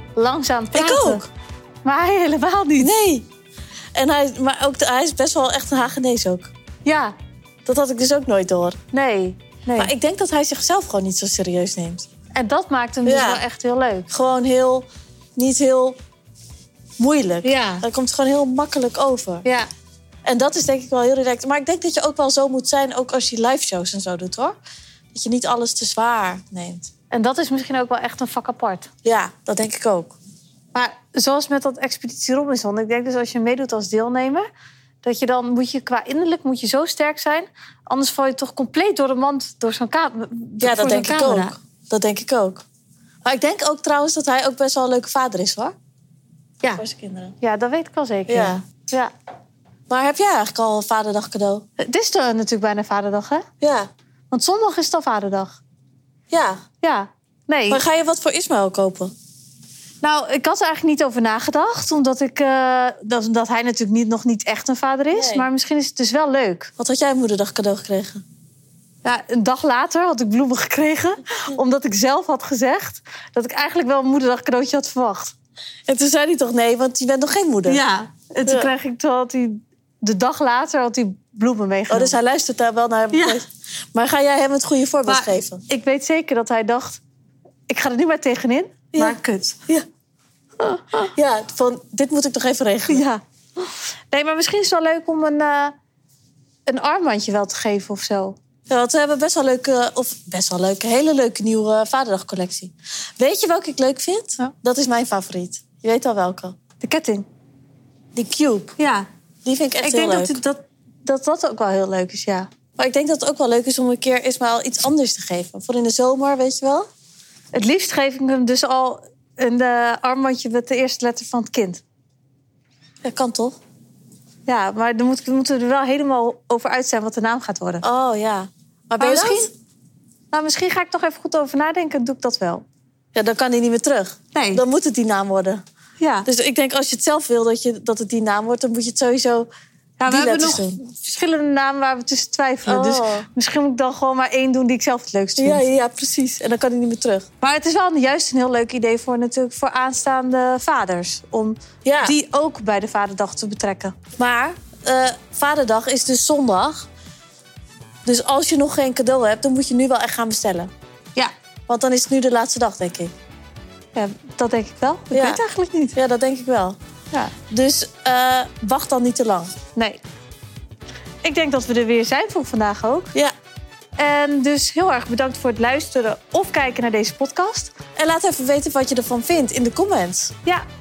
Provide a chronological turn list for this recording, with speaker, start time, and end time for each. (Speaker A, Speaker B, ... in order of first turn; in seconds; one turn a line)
Speaker A: 0.1-1.2
Speaker B: 0.7-1.3
Speaker A: 1.8-2.9
Speaker B: 2.8-3.2
Speaker B: 3.9-6.5
Speaker A: 6.8-7.1
Speaker B: 7.7-8.8
Speaker A: 8.9-9.9
Speaker B: 9.8-12.1
Speaker A: 12.3-14.1
Speaker B: 13.0-13.4
Speaker B: 14.1-16.0
Speaker B: 17.0-19.4
Speaker A: 17.4-17.8
Speaker A: 19.4-19.7
Speaker B: 20.2-24.6
Speaker B: 25.1-26.9
Speaker A: 27.1-28.9
Speaker B: 29.0-30.2
Speaker A: 30.7-34.5
Speaker A: 35.0-41.5
Speaker B: 40.6-42.6
Speaker B: 43.2-45.7
Speaker B: 46.8-47.3
Speaker A: 47.4-49.1
Speaker B: 48.3-48.6
Speaker B: 49.9-51.6
Speaker A: 51.8-53.5
Speaker B: 53.6-53.9
Speaker A: 54.3-55.6
Speaker B: 56.3-56.6
Speaker A: 56.8-57.8
Speaker B: 57.7-59.1
Speaker A: 60.0-66.7
Speaker B: 65.1-65.5
Speaker B: 66.8-68.2
Speaker A: 69.0-75.3
Speaker B: 75.9-77.8
Speaker A: 77.7-82.2
Speaker B: 78.5-78.7
Speaker B: 81.9-85.6
Speaker A: 83.1-83.4
Speaker A: 85.1-87.0
Speaker A: 87.7-89.6
Speaker B: 88.9-89.8
Speaker A: 90.6-91.1
Speaker B: 91.1-93.0
Speaker A: 92.9-95.7
Speaker A: 96.7-98.3
Speaker B: 98.7-106.5
Speaker A: 106.8-107.2
Speaker B: 108.2-108.7
Speaker A: 108.8-109.1
Speaker B: 109.4-110.4
Speaker A: 109.8-112.5
Speaker B: 112.8-116.9
Speaker A: 117.5-121.8
Speaker B: 123.0-123.6
Speaker A: 124.5-127.8
Speaker B: 127.8-129.5
Speaker A: 129.0-129.5
Speaker A: 130.3-132.6
Speaker B: 133.1-135.6
Speaker A: 134.3-134.6
Speaker A: 136.0-136.3
Speaker B: 136.2-139.5
Speaker A: 140.0-145.6
Speaker B: 140.1-140.8
Speaker B: 142.7-143.2
Speaker B: 145.4-147.3
Speaker A: 147.4-153.9
Speaker B: 151.8-152.1
Speaker B: 154.2-156.9
Speaker B: 158.1-160.7
Speaker B: 161.7-163.1
Speaker A: 163.9-165.9
Speaker B: 165.1-165.4
Speaker B: 165.9-166.8
Speaker B: 167.5-169.5
Speaker A: 169.7-170.0
Speaker A: 171.2-173.1
Speaker A: 174.0-177.7
Speaker B: 177.9-180.3